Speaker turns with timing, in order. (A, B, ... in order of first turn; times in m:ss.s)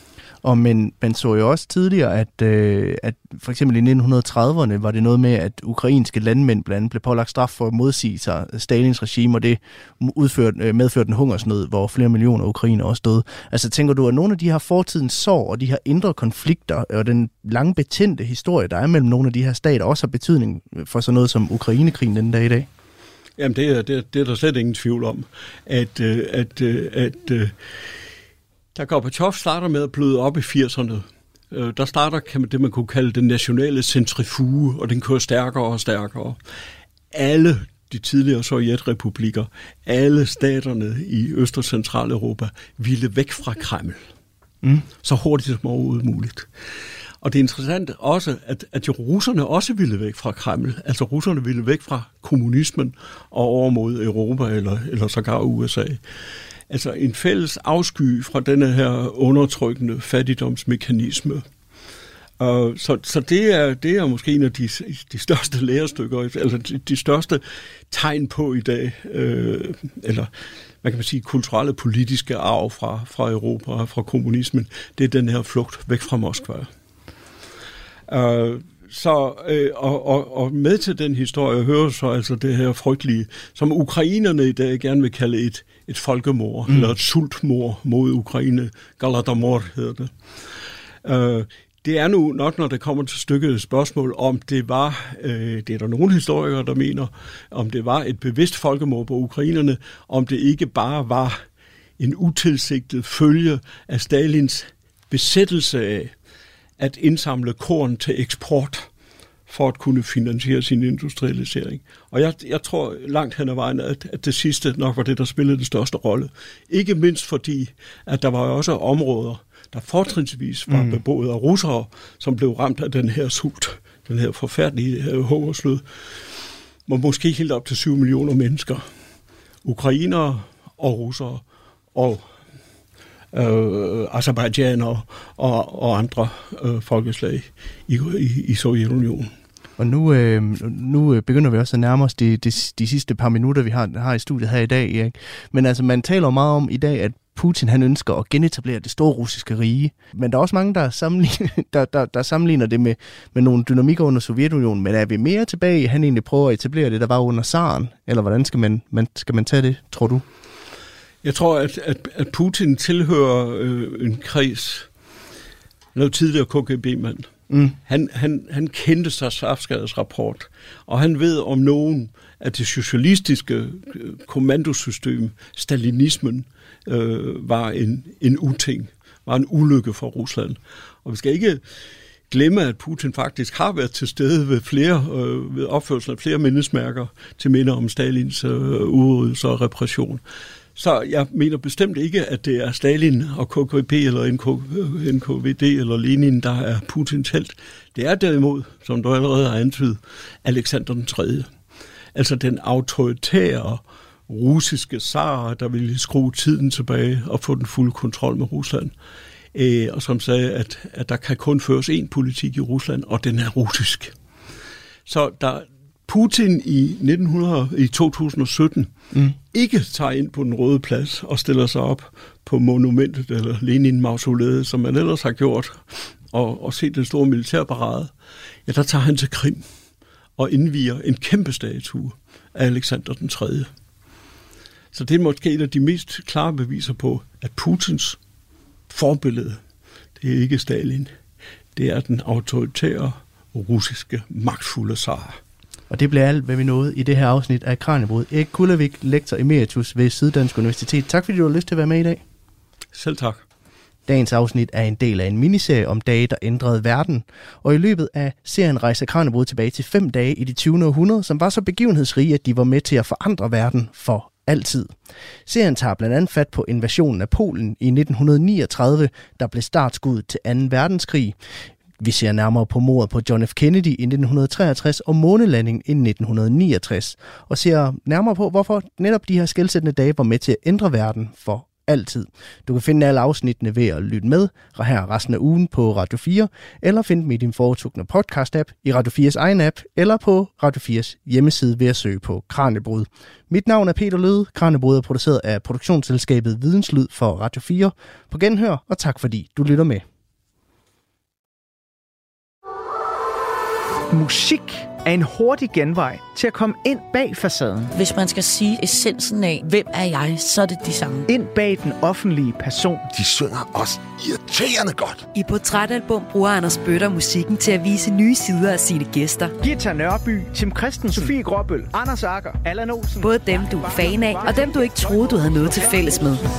0:00.4-0:22.7 A
0:23.4-0:27.6 B
0:28.7-0:36.4 B
0:37.1-0:44.0 B
0:45.0-0:46.5 B
0:47.2-0:56.0 B
0:56.7-1:01.4 B
1:02.4-1:10.3 B
1:10.8-1:16.7 B
1:18.1-1:30.1 B
1:26.7-1:26.9 A
1:31.0-1:41.4 B
1:42.0-1:46.1 B
1:46.8-1:48.9 B
1:49.5-2:05.8 B
2:00.7-2:01.0 A
2:06.9-2:08.9 B
2:09.6-2:12.3 B
2:13.3-2:19.3 B
2:19.8-2:40.2 A
2:41.2-2:44.9 B
2:45.9-3:01.6 B
2:47.5-2:47.8 A
3:02.3-3:10.2 B
3:10.8-3:21.5 B
3:22.1-3:28.9 B
3:29.5-3:34.1 B
3:35.0-3:48.1 B
3:48.6-3:49.6 B
3:50.4-3:53.7 B
3:54.9-3:58.2 B
3:58.9-3:59.6 B
4:00.2-4:01.1 B
4:01.7-4:05.4 B
4:05.9-4:12.2 A
4:12.9-4:13.4 B
4:14.1-4:24.9 A
4:25.4-4:31.3 A
4:32.0-5:00.0 A
5:04.1-5:07.9 C
5:07.9-5:11.3 D
5:11.3-5:13.1 C
5:13.1-5:15.2 E
5:15.3-5:19.5 F
5:19.6-5:26.1 C
5:23.2-5:26.4 F